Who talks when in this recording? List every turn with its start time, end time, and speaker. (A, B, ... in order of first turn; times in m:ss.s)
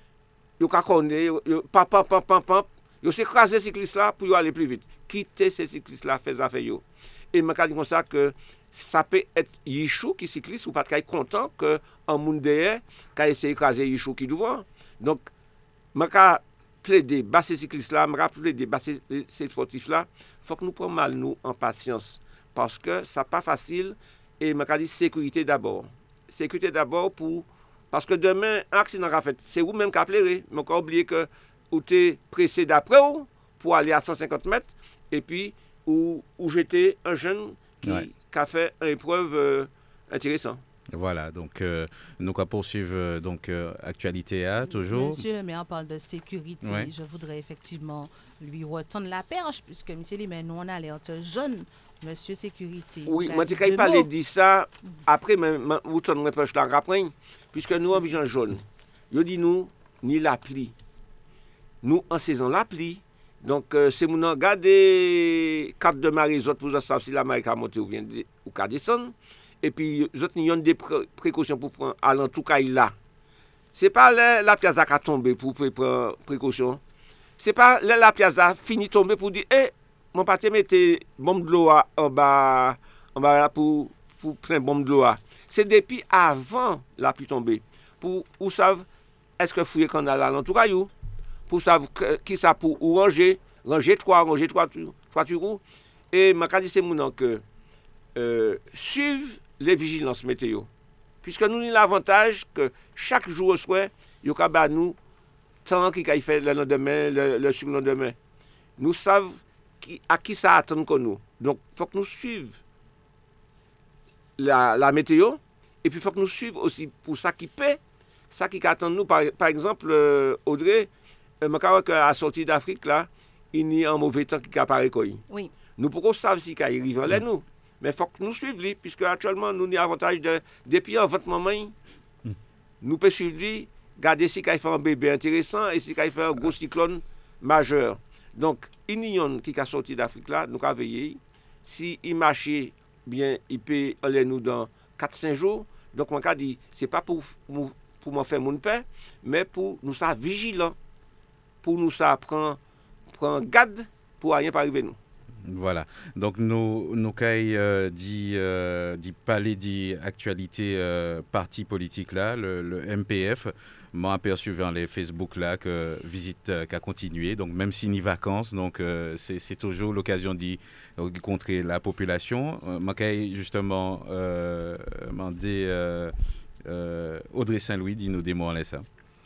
0:00.6-0:15.2 A
0:15.9-0:40.6 A
0:40.9-0:45.2 B
0:44.7-0:54.1 C
0:46.6-0:46.9 B
0:53.0-1:00.7 A
1:01.8-1:12.9 A
1:13.7-1:16.8 A
1:17.4-1:28.8 A
1:29.4-1:30.9 A
1:31.5-1:37.4 A
1:38.1-1:40.7 A
1:41.2-1:45.0 A
1:45.6-1:48.2 A
1:48.8-1:52.6 A
1:54.4-1:57.8 A
1:58.3-2:00.9 A
2:01.4-2:05.2 A
2:05.3-2:05.5 C
2:05.8-2:11.7 A
2:12.8-2:30.8 A
2:31.6-2:32.6 A
2:33.1-2:35.0 A
2:35.4-2:56.1 B
2:56.6-2:58.8 B